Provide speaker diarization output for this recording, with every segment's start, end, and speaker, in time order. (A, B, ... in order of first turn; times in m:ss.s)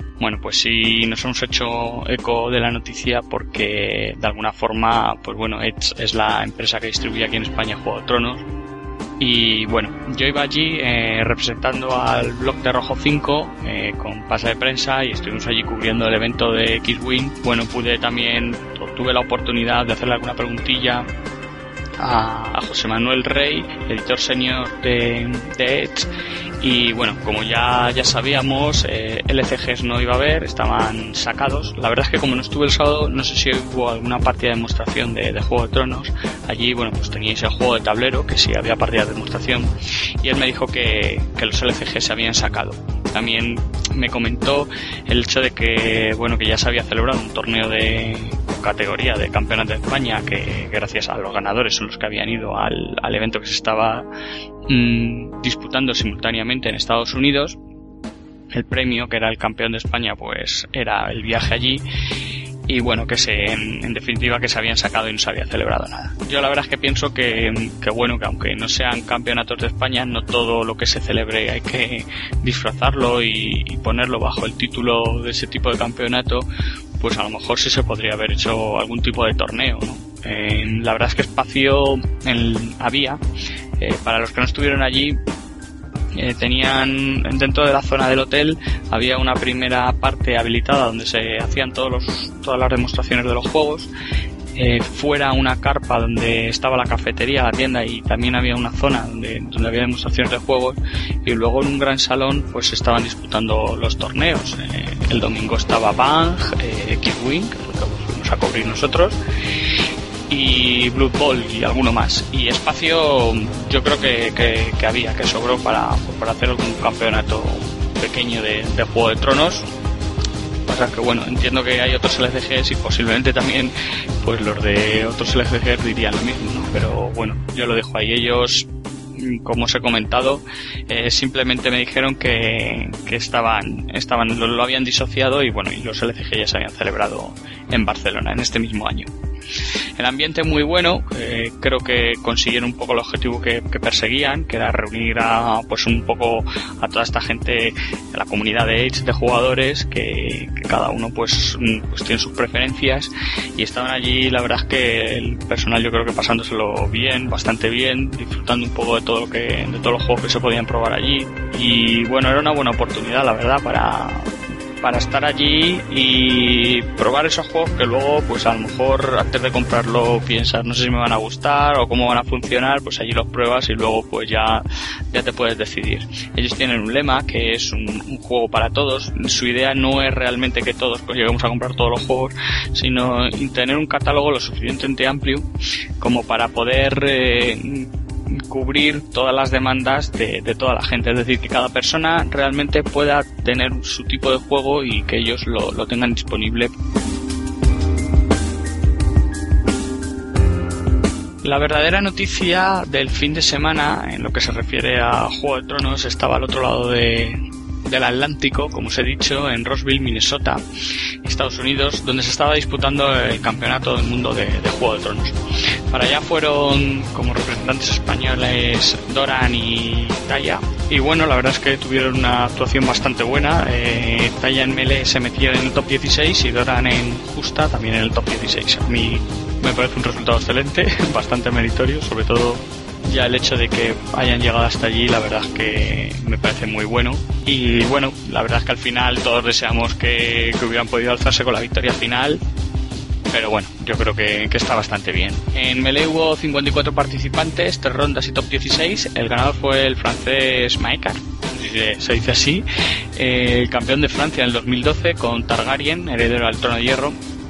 0:00.2-0:08.4 A
0:09.2-0:21.1 A
0:22.0-0:39.7 A
0:40.2-0:54.1 A
0:54.7-0:57.6 A
0:58.5-1:01.8 A
1:02.7-1:16.5 A
1:17.0-1:23.2 A
1:23.8-1:25.2 A
1:26.1-1:33.9 A
1:34.5-1:49.2 A
1:50.3-1:59.7 A
2:00.7-2:19.1 A
2:20.0-3:05.5 A
3:06.0-3:16.7 A
3:21.4-3:30.6 A
3:31.2-3:35.4 A
3:35.9-4:02.4 A
4:03.3-4:17.2 A